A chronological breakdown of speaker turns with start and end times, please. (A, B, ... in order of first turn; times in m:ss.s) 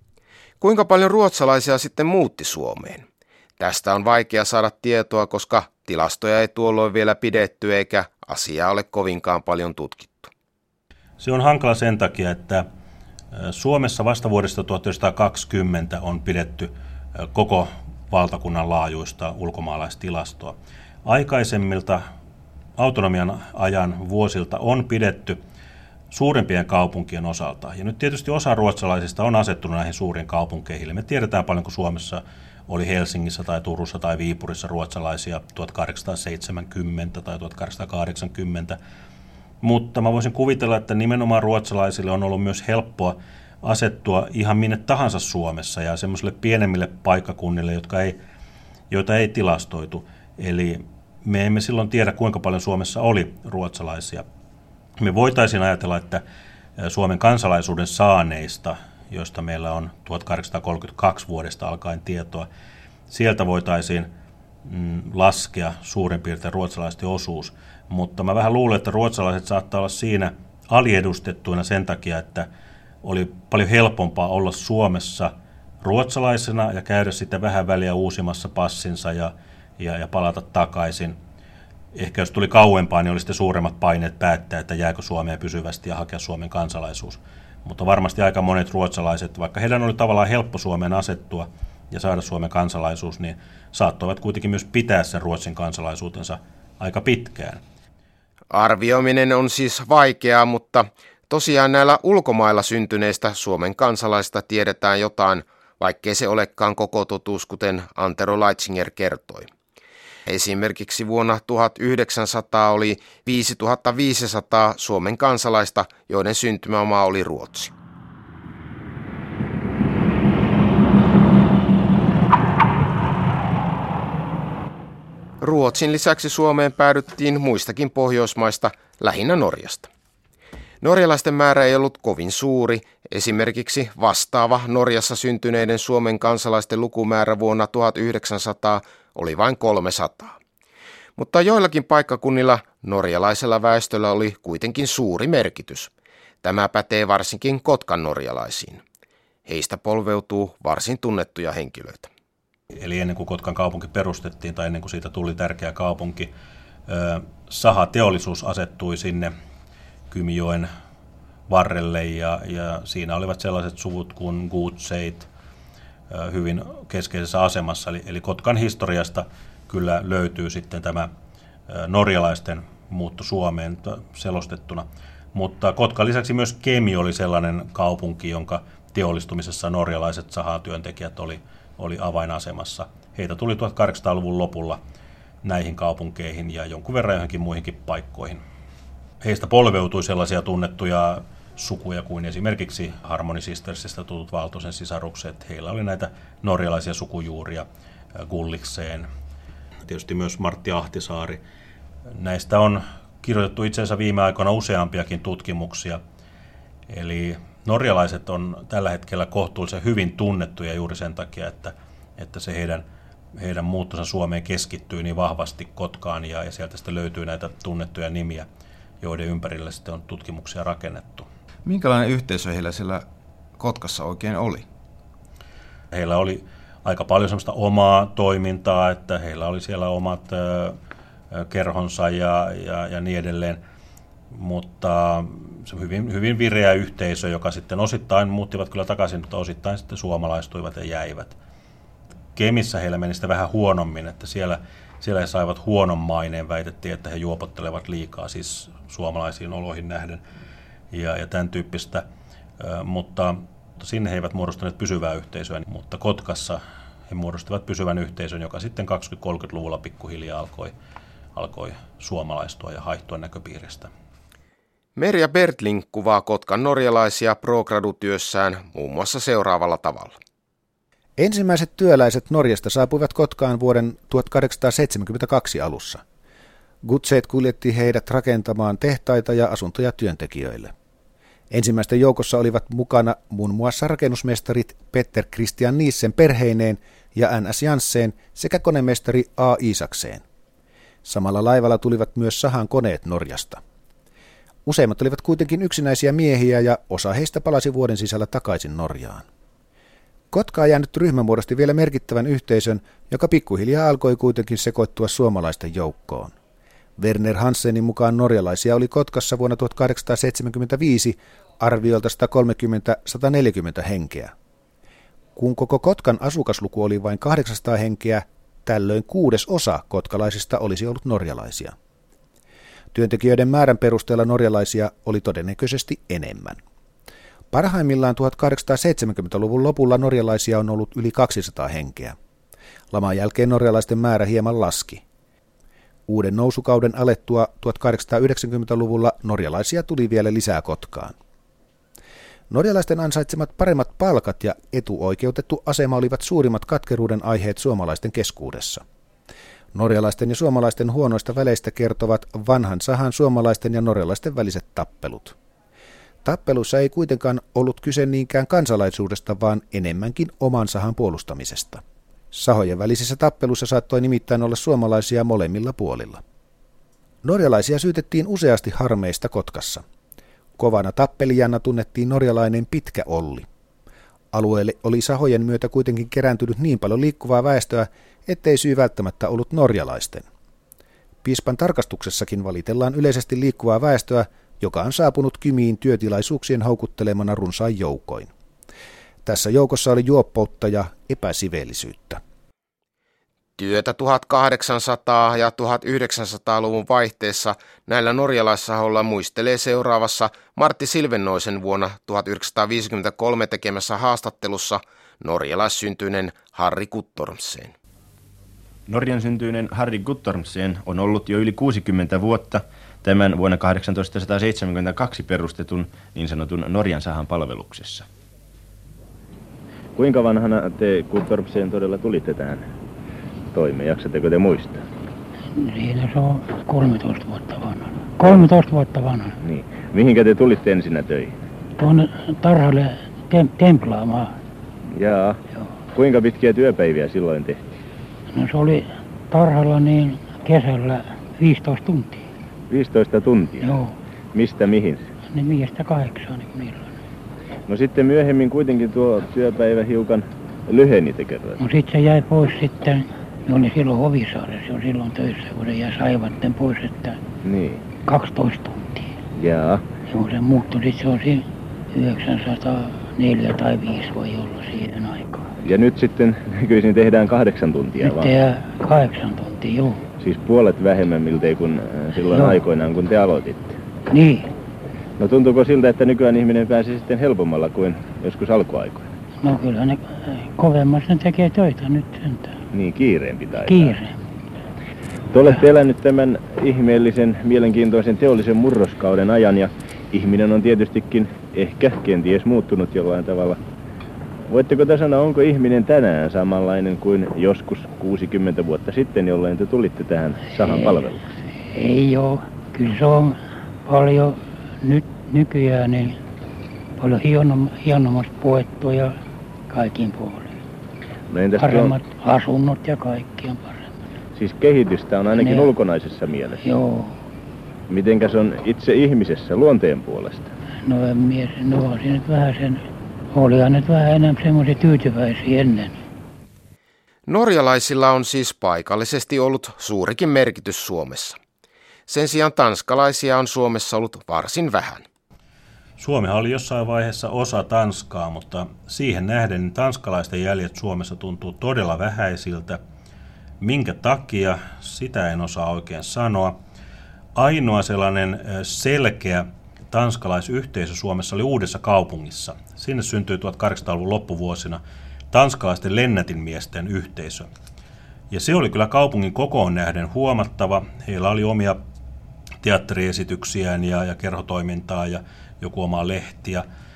0:00.6-0:03.0 A
0:03.6-0:10.3 A
0:11.2-0:12.6 B
0:13.3-0:22.1 B
0:22.8-0:25.4 B
0:26.1-0:38.8 B
0:39.6-0:48.2 B
0:48.9-0:54.2 B
0:55.0-0:56.2 B
0:56.8-1:02.5 B
1:03.1-1:04.1 B
1:04.6-1:12.5 B
1:13.0-1:21.2 B
1:21.9-1:37.6 B
1:38.5-1:49.5 A
1:50.3-1:57.7 A
2:05.4-2:09.9 A
2:10.8-2:20.4 A
2:21.2-2:25.9 A
2:26.4-2:28.8 A
2:29.4-2:32.1 A
2:32.7-2:36.3 B
2:36.9-2:39.3 B
2:40.1-2:40.7 B
2:41.5-2:45.3 B
2:46.1-2:51.1 B
2:51.7-3:04.8 B
3:05.4-3:08.4 B
3:09.2-3:19.1 B
3:19.9-3:21.4 B
3:22.2-3:26.0 B
3:26.9-3:32.8 B
3:33.3-3:38.4 B
3:39.0-3:41.3 B
3:41.6-3:43.0 C
3:43.6-3:44.7 C
3:45.9-3:50.8 B
3:51.3-3:53.6 B
3:54.3-4:01.4 B
4:02.3-4:10.2 B
4:10.9-4:12.0 B
4:12.6-4:20.7 B
4:21.3-4:23.9 B
4:25.0-4:30.1 A
4:31.2-4:36.0 D
4:36.8-4:40.7 D
4:41.5-4:50.2 D
4:51.0-4:53.6 D
4:54.6-4:59.2 D
5:00.3-5:06.4 D
5:07.0-5:14.3 D
5:15.4-5:21.8 D
5:22.9-5:26.6 D
5:27.5-5:32.2 D
5:32.9-5:35.0 D
5:36.1-5:41.2 D
5:42.5-5:48.8 D
5:49.7-5:55.4 D
5:56.2-6:06.2 D
6:07.2-6:09.8 D
6:10.6-6:13.5 D
6:14.3-6:20.2 D
6:21.2-6:28.3 D
6:29.2-6:32.2 D
6:33.6-6:47.7 A
6:48.9-6:58.0 E
7:00.0-7:02.6 E
7:03.5-7:04.8 E
7:05.6-7:09.4 F
7:09.4-7:11.4 E
7:11.8-7:14.3 F
7:14.9-7:15.4 E
7:15.9-7:17.7 E
7:18.3-7:22.3 F
7:22.7-7:23.8 E
7:23.6-7:24.0 F
7:24.3-7:25.0 E
7:25.3-7:26.9 F
7:27.7-7:31.6 E
7:31.6-7:37.2 F
7:37.4-7:37.9 E
7:38.0-7:39.2 F
7:39.3-7:39.8 E
7:40.1-7:45.5 F
7:45.6-7:48.3 E
7:48.0-7:50.0 F
7:50.2-7:53.8 E
7:52.3-7:52.6 F
7:54.1-7:54.5 F
7:55.2-7:59.1 E
7:59.4-8:02.6 F
8:02.7-8:04.0 E
8:03.6-8:04.2 F
8:05.3-8:13.6 E
8:14.5-8:21.2 E
8:20.6-8:21.1 F
8:21.7-8:26.2 F
8:27.0-8:30.6 F
8:31.3-8:31.9 E
8:31.6-8:33.9 F
8:34.4-8:36.6 E
8:35.3-8:35.7 F
8:36.6-8:37.2 F
8:37.9-8:40.5 E
8:40.8-8:46.0 F
8:47.3-8:51.4 A
8:52.1-8:55.0 A
8:56.0-9:02.8 B
9:03.6-9:06.6 B
9:07.3-9:14.8 B
9:15.3-9:17.5 B
9:18.3-9:21.8 B
9:22.6-9:26.6 B